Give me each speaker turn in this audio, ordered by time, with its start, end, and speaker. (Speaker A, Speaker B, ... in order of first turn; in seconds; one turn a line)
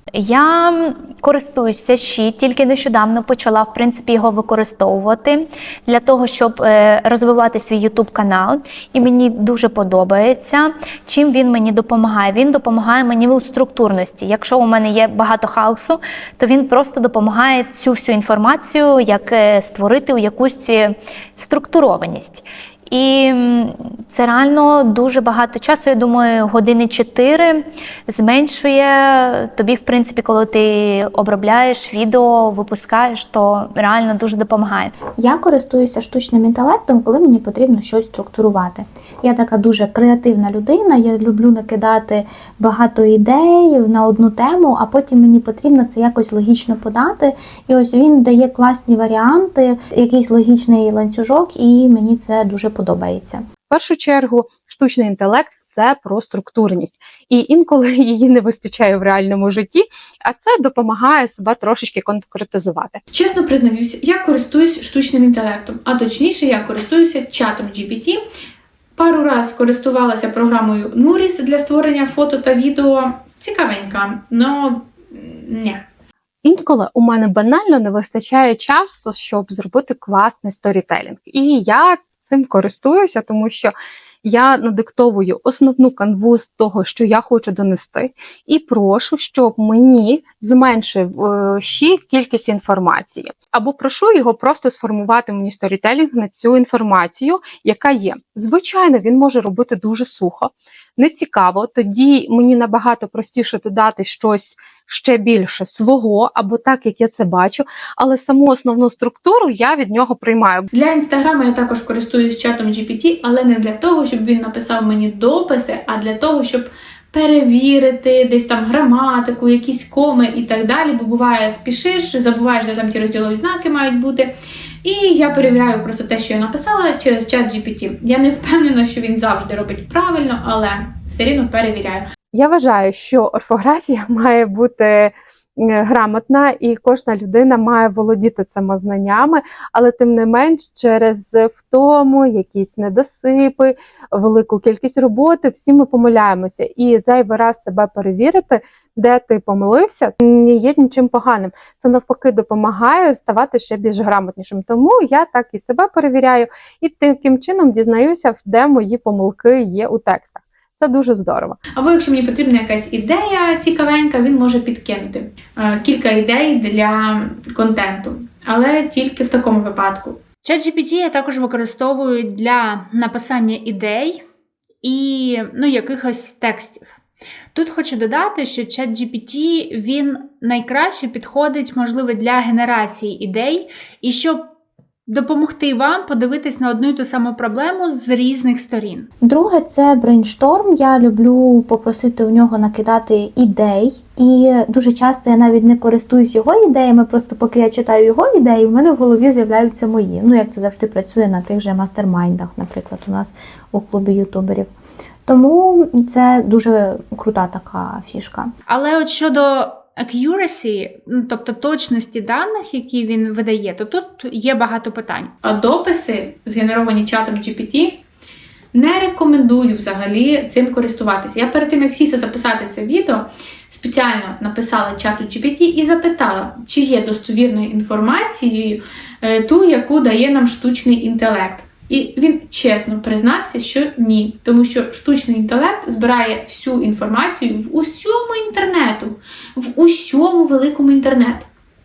Speaker A: 0.1-35.0
Speaker B: 35.2-53.5
Speaker C: 53.7-63.0
Speaker D: 63.1-68.2
Speaker D: 69.0-75.8
Speaker C: 76.4-110.7
Speaker D: 110.7-124.3
Speaker D: 124.8-132.1
Speaker C: 132.3-161.6
Speaker D: 161.8-170.2
Speaker E: 170.4-174.2
Speaker E: 174.8-176.9
Speaker E: 177.5-184.4
Speaker E: 185.1-189.1
Speaker B: 189.2-204.7
Speaker B: 205.3-208.5
Speaker E: 208.7-215.3
Speaker D: 215.4-218.0
Speaker D: 218.7-241.5